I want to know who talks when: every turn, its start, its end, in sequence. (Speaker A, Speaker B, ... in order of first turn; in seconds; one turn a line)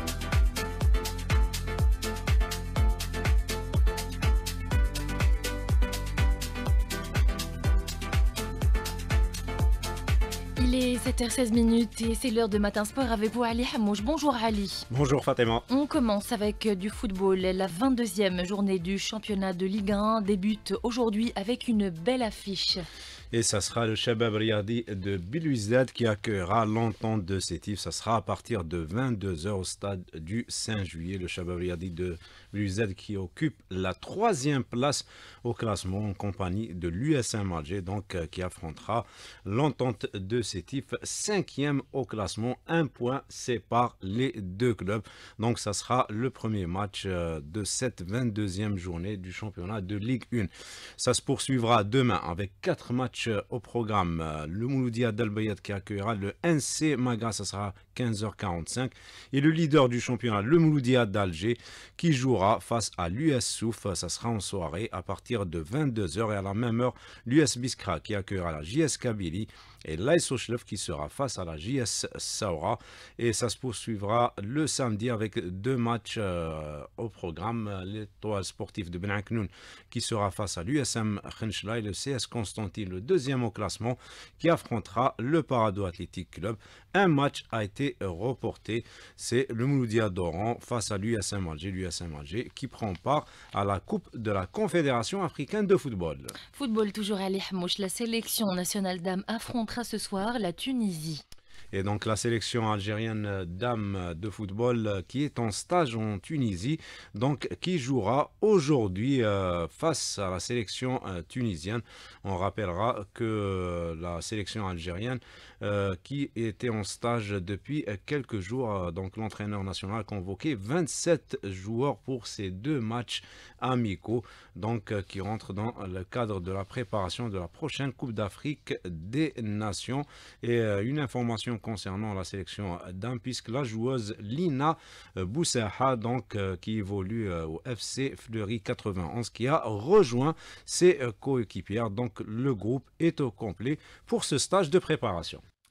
Speaker A: 10.6-14.8
Speaker B: 14.9-15.7
Speaker A: 15.7-22.8
Speaker B: 23.3-96.3
Speaker A: 96.5-101.2
Speaker B: 101.7-145.4